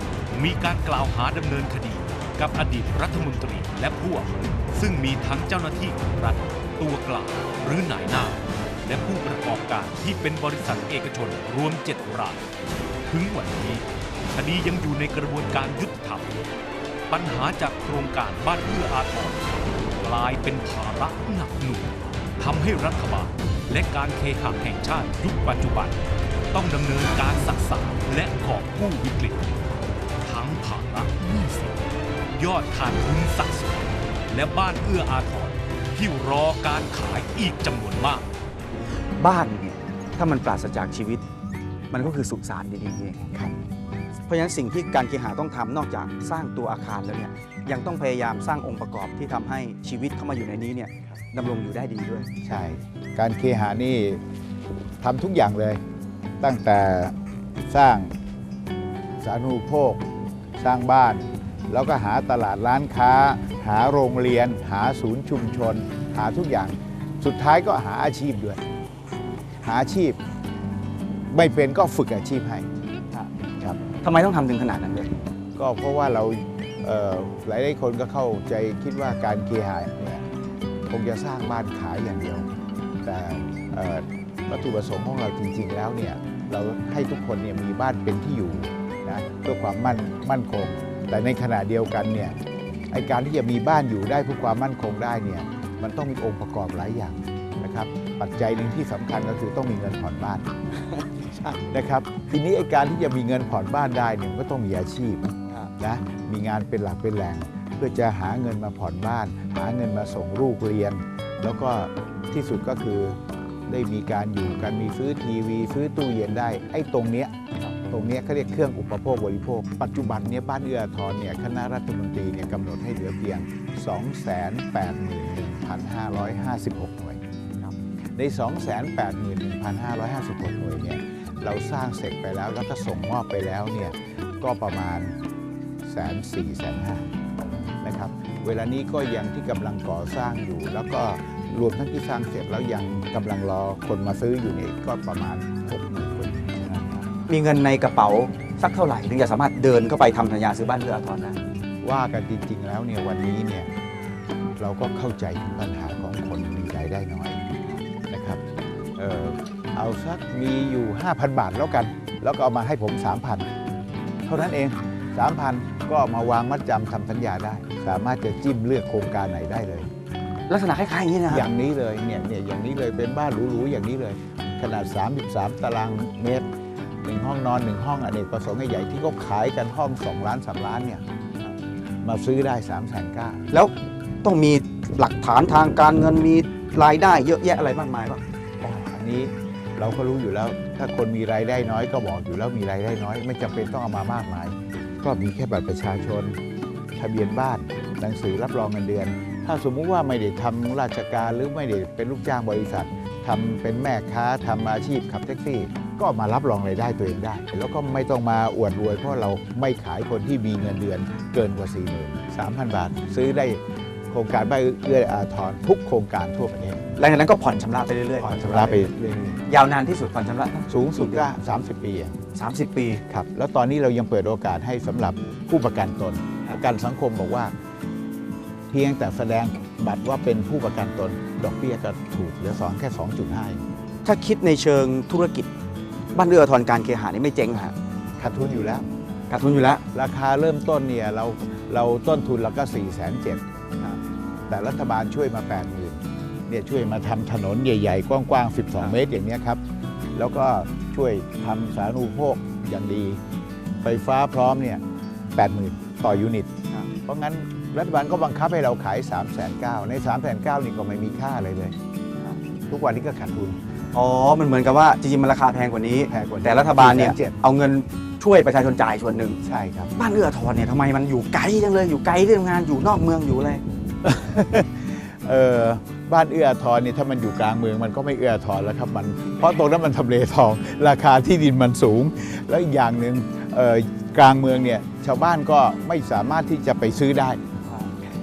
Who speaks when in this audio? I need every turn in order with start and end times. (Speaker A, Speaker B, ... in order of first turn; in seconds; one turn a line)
Speaker A: 0.3-12.4
Speaker A: 13.1-16.4
Speaker A: 17.1-26.0
Speaker A: 26.5-29.5
Speaker A: 30.2-38.3
Speaker B: 39.2-41.2
Speaker B: 41.9-43.3
Speaker C: 43.3-43.6
Speaker B: 44.3-52.3
Speaker C: 52.4-54.2
Speaker C: 55.0-55.8
Speaker C: 56.4-58.2
Speaker C: 59.2-60.0
Speaker C: 60.6-68.6
Speaker C: 69.6-70.2
Speaker C: 71.3-72.7
Speaker B: 73.1-75.1
Speaker C: 75.6-80.3
Speaker C: 80.9-82.5
Speaker C: 83.0-92.4
Speaker C: 92.9-100.5
Speaker B: 100.9-101.7
Speaker C: 101.7-117.3
Speaker C: 117.9-127.2
Speaker C: 128.2-135.2
Speaker C: 135.8-137.1
Speaker C: 137.8-147.1
Speaker B: 147.3-151.4
Speaker C: 151.8-153.7
Speaker C: 154.6-157.5
Speaker C: 158.1-158.4
Speaker C: 159.0-163.5
Speaker C: 164.2-169.9
Speaker B: 170.5-171.5
Speaker C: 171.3-176.5
Speaker C: 177.0-181.0
Speaker C: 182.0-183.5
Speaker B: 183.5-188.2
Speaker C: 188.6-196.4
Speaker C: 196.9-216.9
Speaker B: 217.0-221.3
Speaker C: 218.2-219.4
Speaker C: 220.7-222.2
Speaker B: 222.3-223.0
Speaker C: 223.1-227.5
Speaker C: 228.7-233.7
Speaker B: 234.0-235.5
Speaker B: 236.1-237.8
Speaker C: 238.2-238.9
Speaker B: 239.3-239.8
Speaker C: 239.9-243.4
Speaker C: 244.5-249.6
Speaker C: 250.2-253.2
Speaker C: 253.8-254.8
Speaker C: 255.3-261.8
Speaker C: 262.7-263.6
Speaker B: 263.9-269.4
Speaker C: 266.1-267.4
Speaker C: 269.4-269.9
Speaker B: 270.0-273.6
Speaker C: 274.0-287.4
Speaker B: 287.6-288.1